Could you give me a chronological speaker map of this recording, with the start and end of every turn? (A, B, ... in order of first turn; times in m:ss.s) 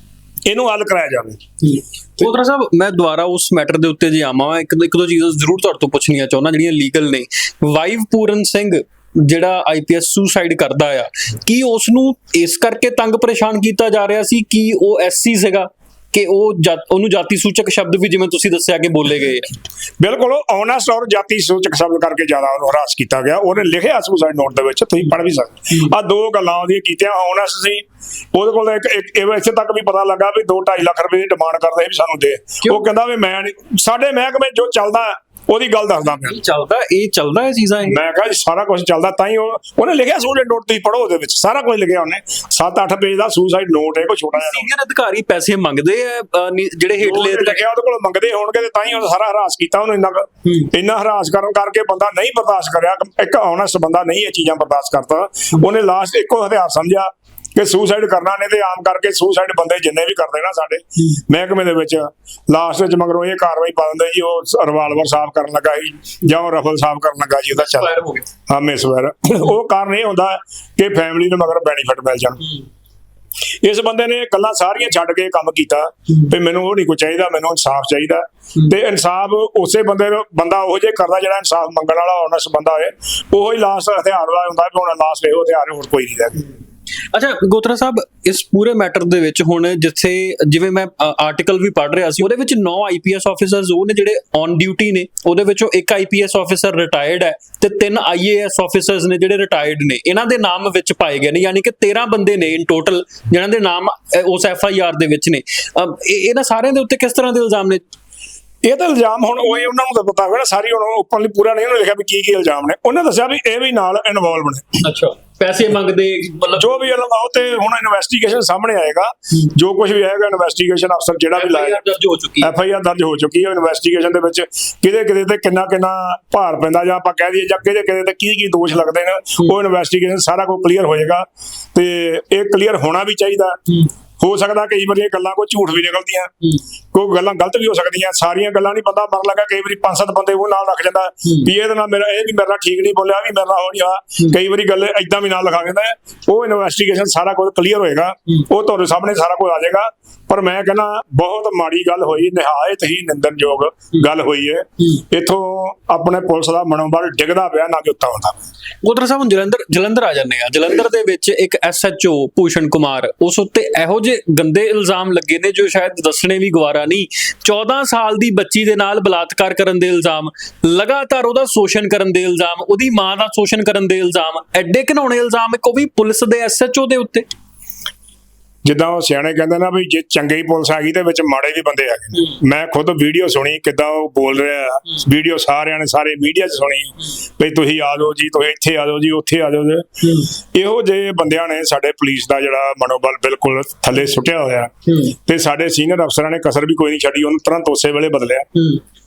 0:00.5-0:01.4 A
0:01.6-0:19.6 B
0:20.0-0:36.4 A
0:36.2-0:38.0 B
0:37.9-0:44.7 A
0:44.4-0:47.6 B
0:47.0-1:07.9 A
1:07.6-1:08.3 B
1:08.5-1:12.5 A
1:13.6-1:26.5 A
1:27.1-1:47.8 B
1:48.6-1:54.8 A
1:54.8-1:56.7 B
1:56.6-2:01.8 A
2:01.4-2:02.5 B
2:02.4-2:13.6 A
2:14.2-2:16.3 A
2:16.9-2:38.4 A
2:38.8-2:57.3 B
2:58.6-3:18.5 A
3:10.0-3:10.3 B
3:14.9-3:15.1 B